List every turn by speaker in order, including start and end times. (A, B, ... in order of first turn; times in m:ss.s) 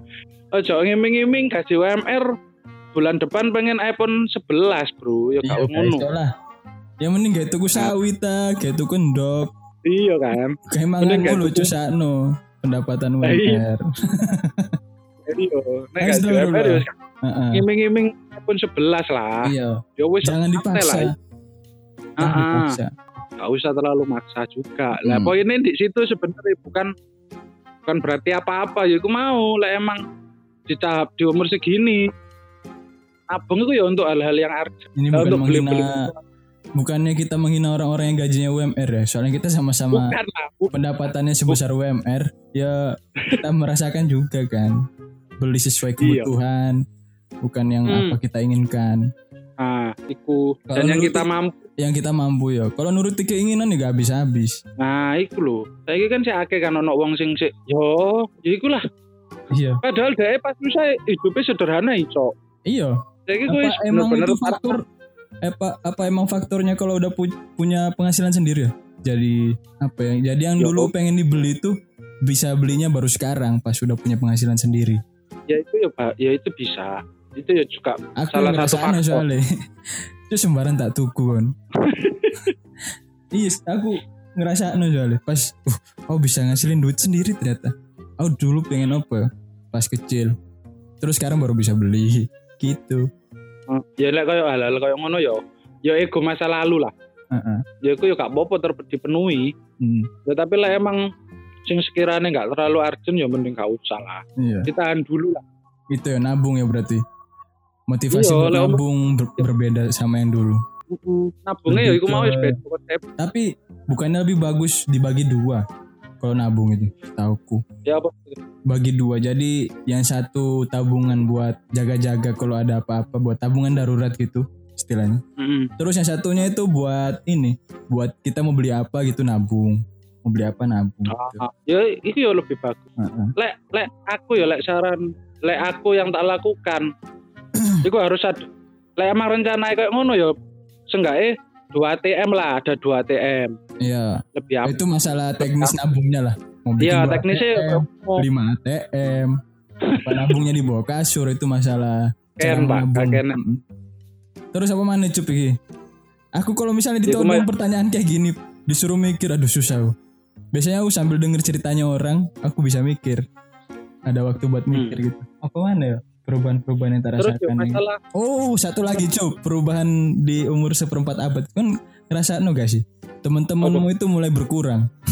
0:00.5-0:02.3 A
0:02.9-0:06.0 A
0:05.4-0:06.3 B
0:07.0-0:09.5 B
0:09.8-0:11.7 A
0:10.7-0:14.8 B
0:13.2-0:13.6 A
0:15.2-0:16.9 A
0:16.0-0:17.6 B
0:17.5-0:21.1 A
0:19.4-0:21.1 B
0:22.2-0:22.8 A
0:22.2-0:22.9 B
0:23.4-0:26.9 A
0:25.0-0:25.3 B
0:27.8-0:30.0 A
0:30.7-0:32.1 A
0:33.3-0:36.2 A
0:35.0-0:36.1 B
0:36.8-0:40.2 B
0:39.9-0:40.7 A
0:40.7-0:44.8 B
0:45.4-0:46.8 B
0:46.0-0:46.3 A
0:47.4-0:49.0 B
0:47.9-0:48.2 A
0:49.6-0:51.6 A
0:50.7-0:51.2 B
0:51.8-0:54.6 B
0:54.8-0:58.8 A
0:59.5-0:59.8 B
0:59.8-1:02.3 A
1:02.7-1:03.0 B
1:03.3-1:04.8 A
1:03.5-1:04.8 B
1:05.4-1:11.7 B
1:10.6-1:10.9 A
1:12.2-1:15.0 B
1:15.5-1:19.2 A
1:18.2-1:21.5 B
1:21.8-1:22.5 A
1:23.3-1:30.3 B
1:31.0-1:33.0 B
1:33.7-1:36.9 A
1:37.3-1:37.6 B
1:37.8-1:39.5 A
1:39.8-1:40.1 B
1:40.2-1:41.0 A
1:41.7-1:45.4 A
1:44.4-1:44.7 B
1:45.9-1:47.0 B
1:47.9-1:50.6 B
1:48.1-1:48.8 A
1:50.9-1:53.0 A
1:51.7-1:52.6 B
1:53.2-1:55.6 B
1:56.2-1:57.6 B
1:57.8-1:58.4 A
1:58.7-2:05.2 B
2:05.4-2:05.7 A
2:05.8-2:11.4 B
2:11.1-2:12.8 A
2:13.0-2:13.3 B
2:13.4-2:16.9 A
2:17.6-2:17.8 B
2:17.8-2:20.3 A
2:20.9-2:23.6 A
2:23.8-2:29.4 B
2:24.3-2:24.8 A
2:25.4-2:25.8 A
2:26.8-2:28.2 A
2:29.8-2:30.4 A
2:30.0-2:33.6 B
2:32.4-2:33.4 A
2:34.5-2:35.6 B
2:36.4-2:39.9 B
2:37.0-2:37.5 A
2:40.5-2:43.2 B
2:44.0-2:54.9 B
2:44.7-2:45.0 A
2:47.2-2:48.0 A